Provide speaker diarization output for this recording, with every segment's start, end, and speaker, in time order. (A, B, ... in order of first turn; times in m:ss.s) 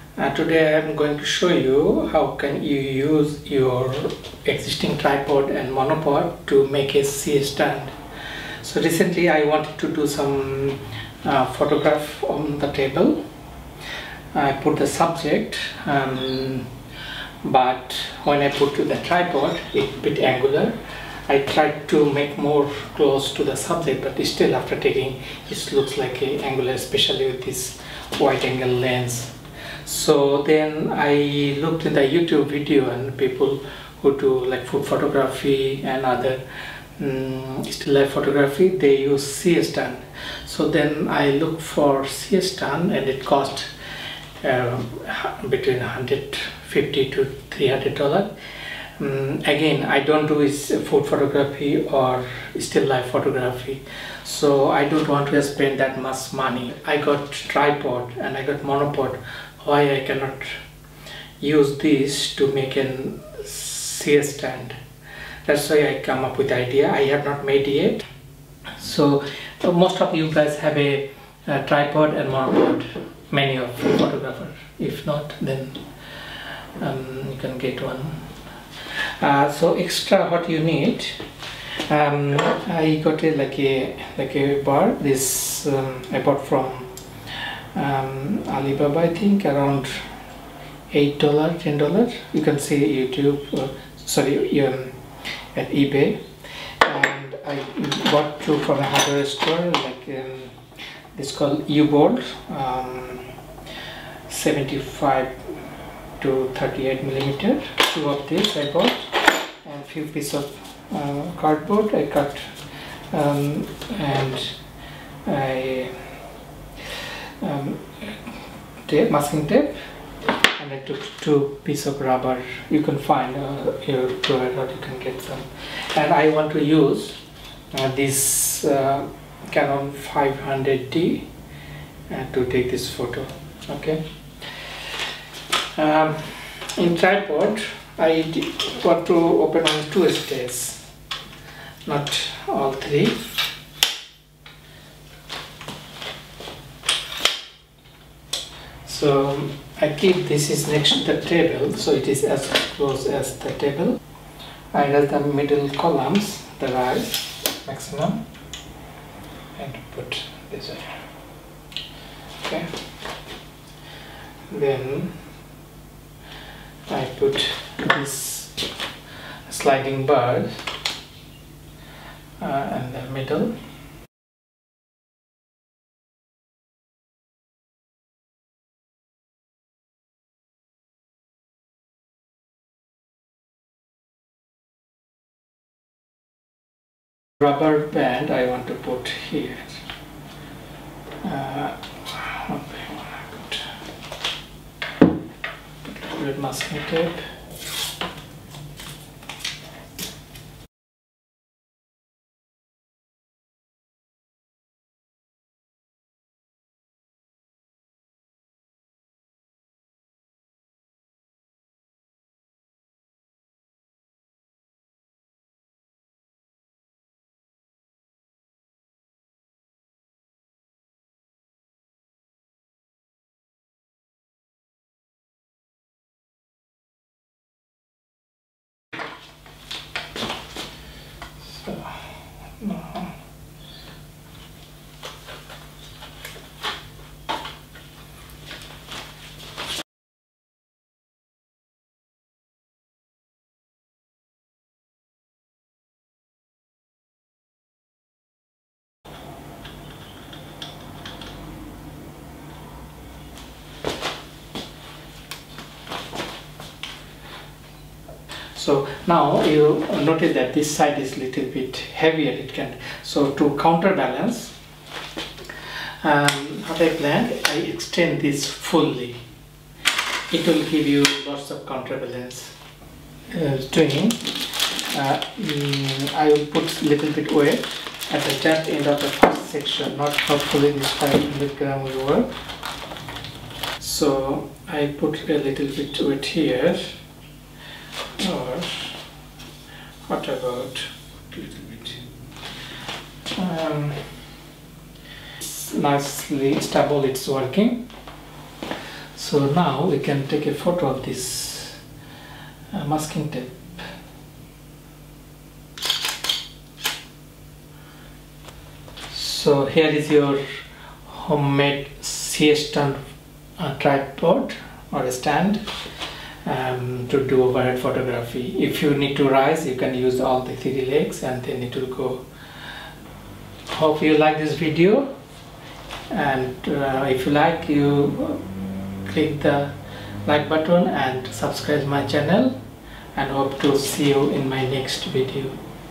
0:00.2-0:07.9 A
0:08.6-0:13.2 A
0:14.3-0:16.7 A
0:17.4-0:29.3 A
0:29.8-0:36.4 A
0:37.0-0:43.7 A
0:44.4-0:48.3 A
0:49.0-1:00.6 A
1:01.4-1:04.8 A
1:05.4-1:08.0 A
1:08.8-1:15.8 A
1:16.8-1:18.2 A
1:19.0-1:21.2 A
1:21.9-1:30.0 A
1:30.9-1:34.9 A
1:35.5-1:36.2 A
1:36.8-1:40.5 A
1:41.1-1:43.2 A
1:44.3-1:45.3 A
1:46.2-1:52.5 A
1:53.1-1:54.6 A
1:55.2-1:55.9 A
1:57.4-1:58.3 A
1:58.8-1:59.7 A
2:00.6-2:07.2 A
2:07.7-2:11.2 A
2:12.1-2:14.0 A
2:14.6-2:14.9 A
2:15.8-2:20.8 A
2:21.8-2:23.3 A
2:28.8-2:34.0 A
2:34.7-2:38.2 A
2:39.6-2:41.0 A
2:42.4-2:42.7 A
2:44.5-2:45.1 A
2:46.9-2:48.5 A
2:49.5-2:50.6 A
2:52.4-2:53.5 A
3:07.4-3:09.6 A
3:11.2-3:13.7 A
3:15.8-3:17.2 A
3:51.4-3:53.1 A
4:18.5-4:24.5 A
4:26.0-4:29.2 A
4:30.3-4:32.5 A
4:33.3-4:42.3 A
4:43.8-4:47.0 A
4:48.2-4:49.0 A
4:50.1-4:52.0 A
4:53.4-4:54.1 A
4:55.4-4:57.8 A
4:59.1-5:01.8 A
5:02.7-5:03.6 A
5:09.1-5:10.4 A
5:11.0-5:13.0 A
5:13.6-5:15.6 A
5:16.4-5:22.2 A
5:23.7-5:25.1 A
5:26.1-5:28.4 A
5:29.0-5:29.7 A
5:30.2-5:32.6 A
5:33.1-5:35.6 A